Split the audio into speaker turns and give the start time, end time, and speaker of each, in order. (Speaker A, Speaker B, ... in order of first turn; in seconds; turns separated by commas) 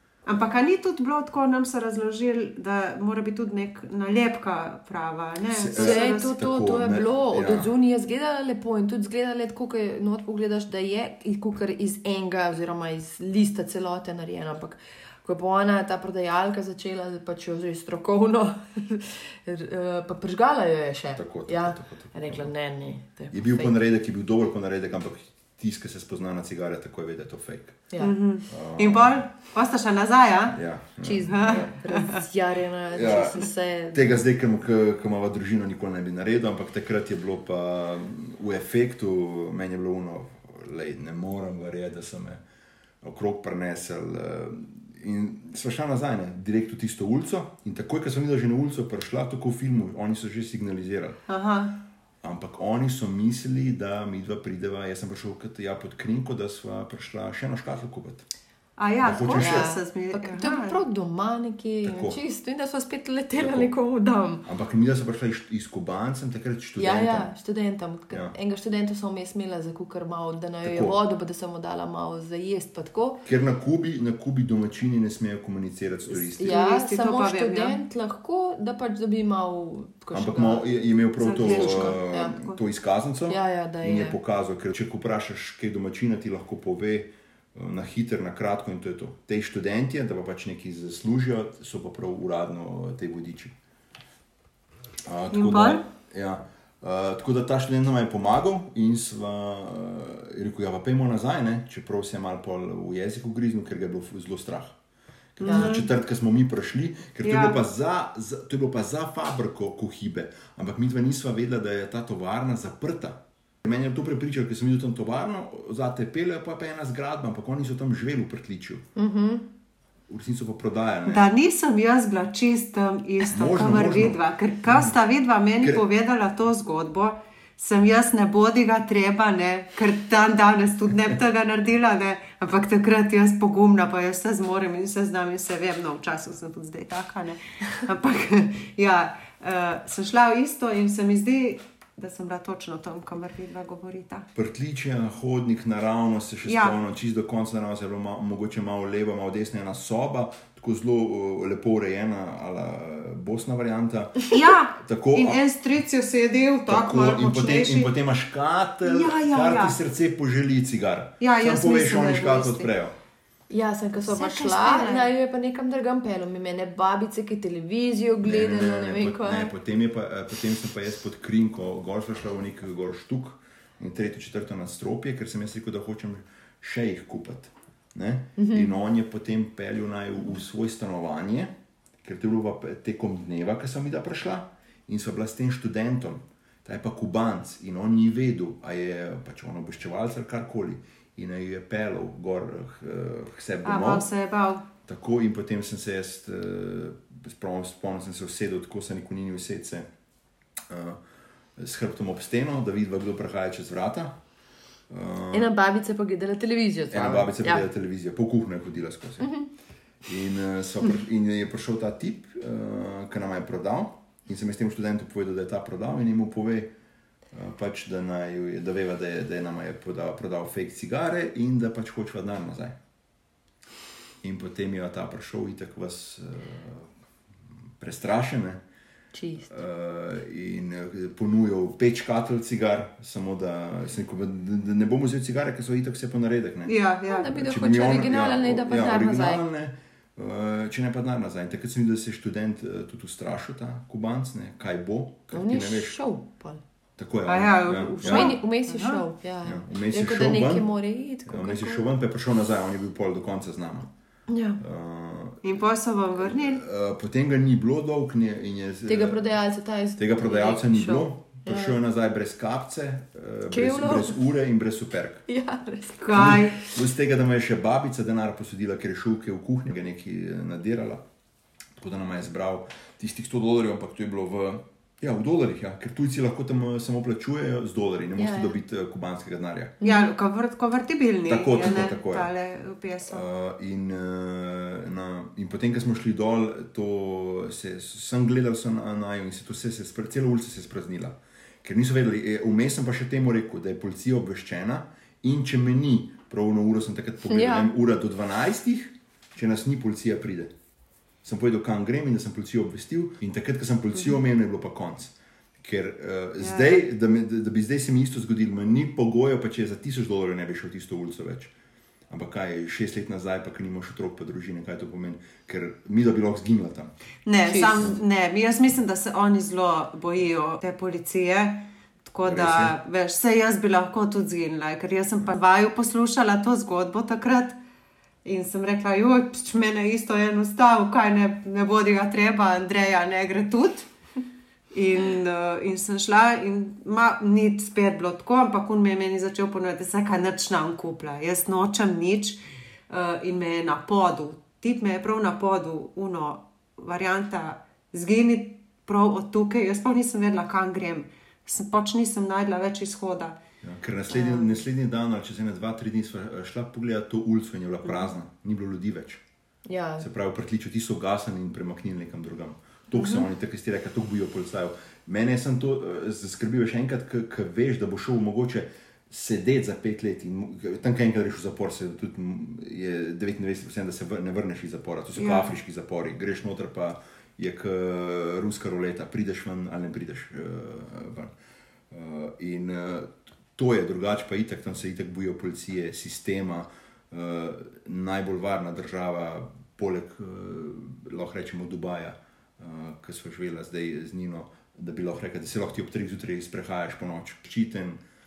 Speaker A: 0.3-6.3, Speaker B: 5.5-7.7, Speaker C: 5.8-23.7, Speaker B: 21.2-22.5, Speaker B: 23.3-27.9, Speaker A: 28.0-30.6, Speaker B: 28.5-29.2, Speaker B: 30.5-31.8, Speaker C: 31.0-34.2, Speaker A: 31.2-32.2, Speaker B: 32.9-42.4, Speaker B: 43.0-51.2, Speaker A: 51.3-51.8, Speaker B: 52.2-58.3, Speaker A: 58.8-60.8, Speaker B: 59.0-59.7, Speaker C: 59.4-64.5, Speaker B: 61.8-62.2, Speaker B: 63.4-63.7, Speaker B: 64.5-67.3, Speaker C: 66.8-73.2, Speaker B: 70.6-71.0, Speaker B: 73.2-76.6, Speaker C: 76.4-80.7, Speaker A: 76.4-77.8, Speaker B: 80.1-93.5, Speaker A: 81.2-82.6, Speaker C: 81.2-82.4, Speaker C: 83.3-84.2, Speaker B: 95.0-104.8, Speaker A: 95.3-95.8, Speaker B: 105.4-118.8, Speaker A: 105.4-105.9, Speaker C: 105.5-105.8, Speaker A: 107.2-107.6, Speaker C: 119.0-119.5, Speaker B: 120.1-121.3, Speaker A: 121.1-144.3, Speaker B: 123.3-124.9, Speaker B: 144.3-155.4, Speaker A: 146.4-146.8, Speaker A: 154.3-157.9, Speaker B: 156.7-162.9, Speaker A: 158.8-159.8, Speaker A: 161.2-162.7, Speaker C: 163.5-169.5, Speaker A: 164.1-165.1, Speaker B: 168.2-194.1, Speaker C: 178.4-178.7, Speaker A: 193.7-194.7, Speaker B: 194.8-199.9, Speaker B: 200.7-201.0, Speaker B: 201.6-204.2, Speaker B: 204.9-205.5, Speaker C: 205.3-207.7, Speaker B: 206.9-209.3, Speaker C: 209.2-209.5, Speaker B: 210.1-216.7, Speaker B: 217.3-222.8, Speaker B: 224.2-226.9, Speaker B: 227.8-228.6, Speaker C: 229.1-229.5, Speaker B: 229.5-236.8, Speaker A: 236.7-237.3, Speaker C: 237.1-239.4, Speaker B: 237.3-246.0, Speaker C: 245.3-246.6, Speaker B: 247.0-248.4, Speaker A: 247.3-249.0, Speaker C: 248.0-251.9, Speaker B: 249.4-250.7, Speaker B: 251.3-253.9, Speaker C: 254.3-254.6, Speaker B: 254.6-255.4, Speaker A: 255.4-256.6, Speaker B: 256.2-259.3, Speaker C: 258.9-261.8, Speaker B: 260.0-265.2, Speaker C: 263.5-264.2, Speaker C: 265.3-266.5, Speaker A: 266.0-266.6, Speaker B: 266.1-271.0, Speaker B: 271.8-279.8, Speaker C: 278.2-278.6, Speaker C: 279.8-280.1, Speaker A: 279.8-283.3, Speaker B: 281.3-282.3, Speaker B: 283.1-300.5, Speaker C: 297.3-297.7, Speaker B: 301.2-311.5, Speaker A: 306.4-306.8, Speaker B: 312.1-316.9, Speaker A: 317.3-327.6, Speaker C: 317.5-318.0, Speaker B: 322.2-322.8, Speaker A: 328.2-333.9, Speaker A: 334.7-353.4, Speaker B: 353.6-359.2, Speaker A: 354.1-354.6, Speaker C: 359.7-360.1, Speaker B: 360.0-381.3, Speaker A: 362.9-363.3, Speaker A: 375.1-375.6, Speaker B: 381.9-398.0